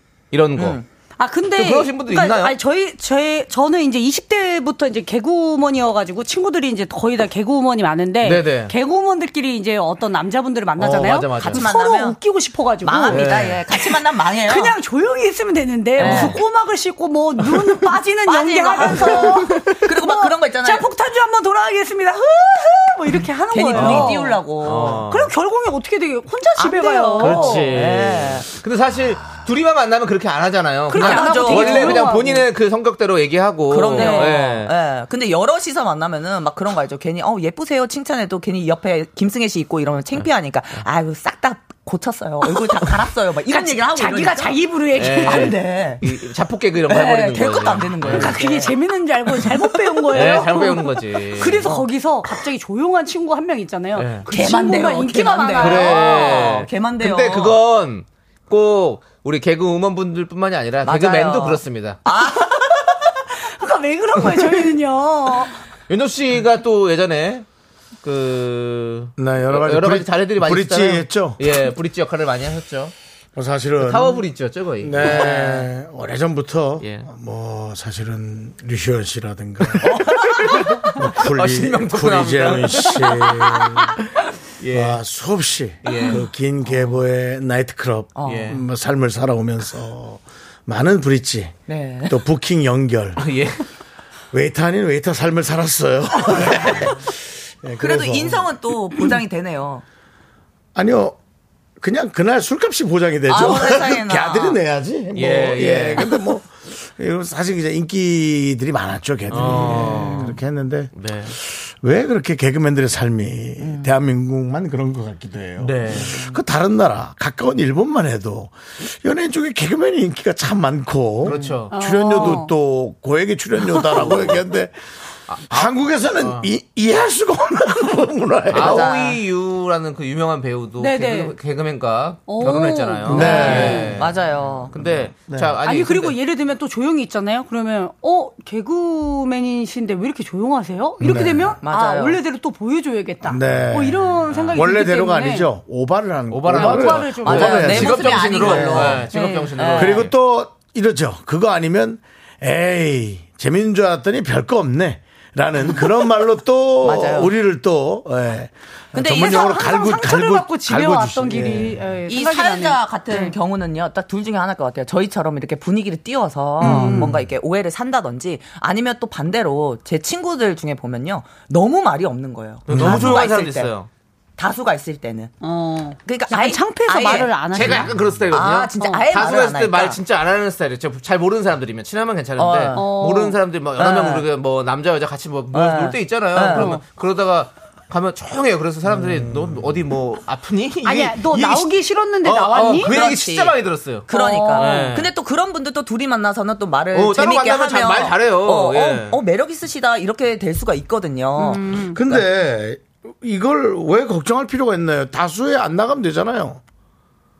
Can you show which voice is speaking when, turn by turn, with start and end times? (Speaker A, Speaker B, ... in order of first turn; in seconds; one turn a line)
Speaker A: 0.3-0.8
Speaker B: 0.6-0.8
Speaker C: 1.2-24.4
Speaker A: 1.5-2.5
Speaker A: 8.2-8.7
Speaker A: 10.8-11.7
Speaker B: 11.4-12.2
Speaker B: 12.8-14.8
Speaker A: 13.1-13.6
Speaker B: 15.9-16.4
Speaker A: 16.0-16.4
Speaker B: 18.2-20.9
Speaker B: 23.5-25.0
Speaker A: 23.7-25.3
Speaker C: 25.1-27.8
Speaker B: 26.6-28.5
Speaker A: 27.2-34.7
Speaker C: 30.9-32.4
Speaker B: 30.9-32.4
Speaker B: 33.7-46.0
Speaker C: 34.0-34.4
Speaker C: 43.5-45.6
Speaker A: 44.9-48.4
Speaker B: 46.9-48.8
Speaker C: 48.0-56.5
Speaker B: 49.4-50.4
Speaker A: 50.1-51.7
Speaker A: 53.9-54.3
Speaker B: 54.3-57.6
Speaker A: 55.6-62.0
Speaker B: 60.8-63.0
Speaker C: 63.4-65.5
Speaker A: 65.9-67.5
Speaker A: 68.0-72.9
Speaker D: 69.2-71.4
Speaker D: 73.3-74.2
Speaker A: 73.8-75.7
Speaker D: 74.8-80.1
Speaker A: 76.8-77.1
Speaker B: 79.8-80.8
Speaker A: 80.1-83.9
Speaker D: 81.0-84.0
Speaker A: 84.6-85.0
Speaker D: 84.7-91.5
Speaker A: 85.8-86.9
Speaker B: 85.9-86.1
Speaker B: 88.1-88.5
Speaker A: 88.2-88.6
Speaker B: 91.7-92.2
Speaker D: 92.1-93.2
Speaker A: 93.2-93.6
Speaker D: 94.3-98.5
Speaker B: 97.8-99.8
Speaker D: 100.7-101.2
Speaker D: 101.8-124.7
Speaker B: 103.3-104.6
Speaker A: 105.1-106.1
Speaker A: 109.3-110.3
Speaker B: 109.4-110.3
Speaker A: 110.9-111.3
Speaker B: 113.6-113.9
Speaker A: 115.6-116.2
Speaker B: 116.0-116.4
Speaker A: 121.2-122.4
Speaker B: 121.3-121.6
Speaker C: 121.7-122.5
Speaker C: 123.7-124.0
Speaker A: 124.0-124.3
Speaker A: 125.3-126.5
Speaker D: 125.5-128.9
Speaker A: 128.5-136.2
Speaker B: 128.6-129.2
Speaker C: 130.8-131.3
Speaker C: 132.3-134.1
Speaker D: 133.1-133.8
Speaker B: 133.1-134.7
Speaker D: 135.1-135.5
Speaker C: 135.6-145.5
Speaker D: 141.0-141.6
Speaker B: 141.6-142.2
Speaker D: 143.2-148.8
Speaker A: 144.3-144.6
Speaker A: 146.3-150.1
Speaker C: 146.5-149.6
Speaker B: 147.2-150.1
Speaker D: 149.8-161.8
Speaker B: 156.8-157.3
Speaker B: 158.9-159.3
Speaker C: 159.2-163.3
Speaker B: 162.1-173.7
Speaker C: 166.6-167.2
Speaker D: 166.6-167.0
Speaker A: 172.6-173.9
Speaker D: 172.7-173.2
Speaker B: 174.4-175.3
Speaker C: 175.4-177.9
Speaker B: 176.0-177.4
Speaker A: 177.5-191.7
Speaker B: 178.3-180.0
Speaker C: 178.8-179.1
Speaker B: 182.4-182.9
Speaker C: 182.7-183.4
Speaker B: 183.8-184.2
Speaker B: 185.5-186.8
Speaker C: 186.5-186.8
Speaker D: 188.8-189.7
Speaker C: 190.8-193.0
Speaker A: 192.2-195.1
Speaker B: 192.9-201.7
Speaker C: 194.1-194.9
Speaker A: 196.9-199.2
Speaker C: 201.3-202.0
Speaker D: 201.9-206.6